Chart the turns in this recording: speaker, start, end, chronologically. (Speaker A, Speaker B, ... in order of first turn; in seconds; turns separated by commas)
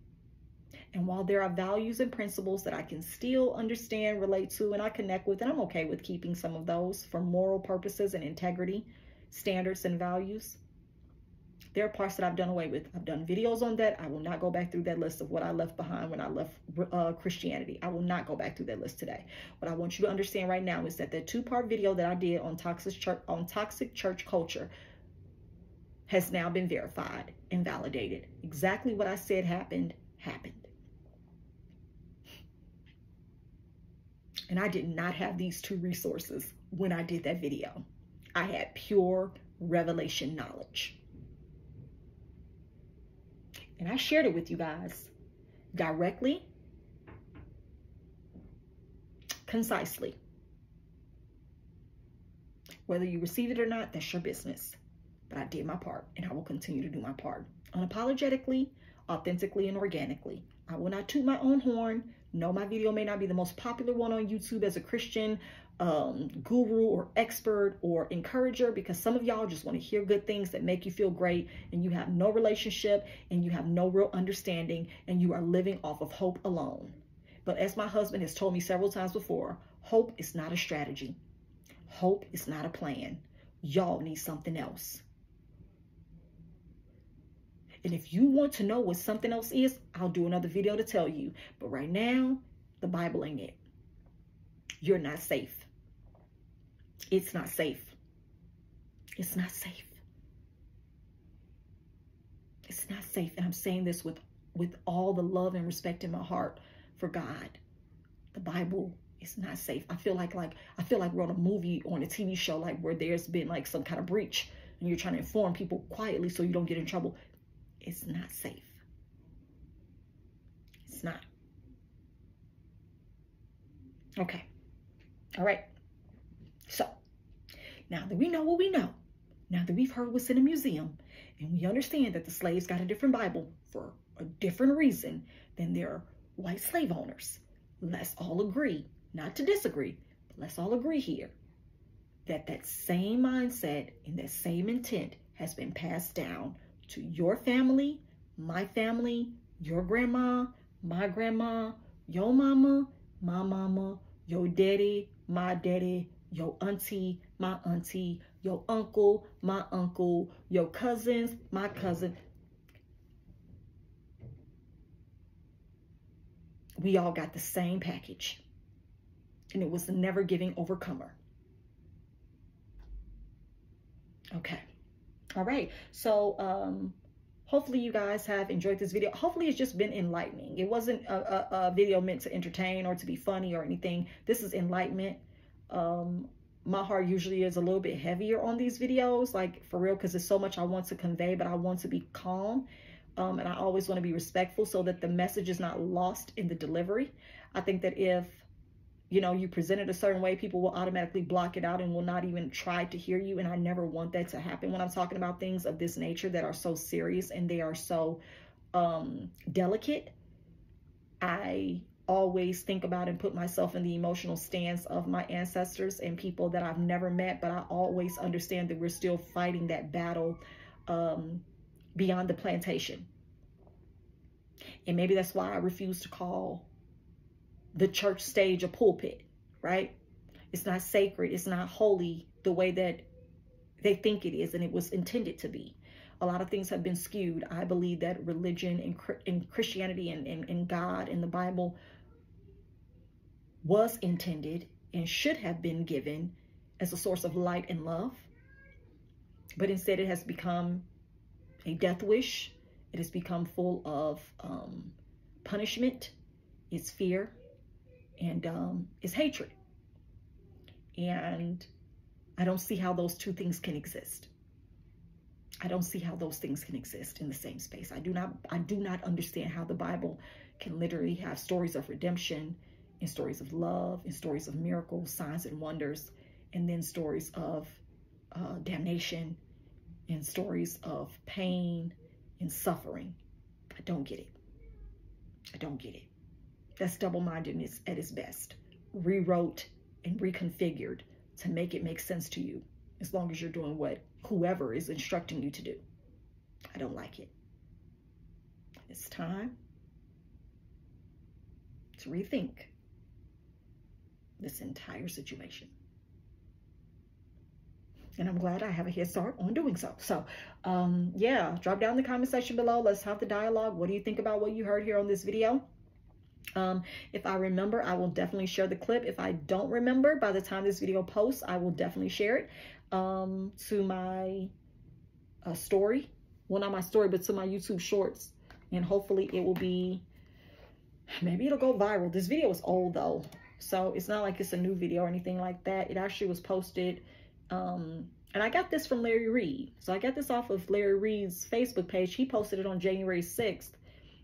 Speaker A: 0.9-10.6, Speaker A: 11.7-24.7, Speaker A: 26.1-30.7, Speaker A: 34.5-41.0, Speaker A: 43.8-45.1, Speaker A: 45.7-46.5, Speaker A: 49.5-50.1, Speaker A: 52.9-54.8, Speaker A: 55.3-81.2, Speaker A: 81.9-85.0, Speaker A: 87.8-93.6, Speaker A: 94.8-95.7, Speaker A: 97.1-98.0, Speaker A: 99.2-100.0, Speaker A: 102.7-107.6, Speaker A: 108.3-117.2, Speaker A: 117.8-118.8, Speaker A: 120.8-121.2, Speaker A: 124.2-124.4, Speaker A: 125.4-125.7, Speaker A: 126.7-126.9, Speaker A: 127.9-129.0, Speaker A: 129.5-141.3, Speaker A: 142.2-162.2, Speaker A: 166.8-168.4, Speaker A: 169.5-171.2, Speaker A: 174.3-174.6, Speaker A: 175.3-192.7, Speaker A: 193.2-198.4, Speaker A: 199.1-208.2, Speaker A: 208.7-210.1, Speaker A: 211.2-221.4, Speaker A: 221.9-223.1, Speaker A: 224.8-226.7, Speaker A: 227.7-229.9, Speaker A: 230.5-233.1, Speaker A: 233.8-241.8, Speaker A: 243.6-248.3, Speaker A: 249.6-250.8, Speaker A: 251.6-256.1, Speaker A: 256.7-257.4, Speaker A: 258.2-259.5, Speaker A: 260.9-261.7, Speaker A: 262.4-264.3, Speaker A: 265.6-277.8, Speaker A: 278.3-279.4, Speaker A: 280.1-283.2, Speaker A: 283.8-284.3, Speaker A: 285.5-286.1, Speaker A: 286.8-295.8, Speaker A: 296.7-297.3, Speaker A: 298.9-299.6, Speaker A: 301.9-302.7, Speaker A: 304.4-305.7, Speaker A: 308.2-315.6, Speaker A: 316.6-324.5, Speaker A: 325.4-330.0, Speaker A: 331.1-343.8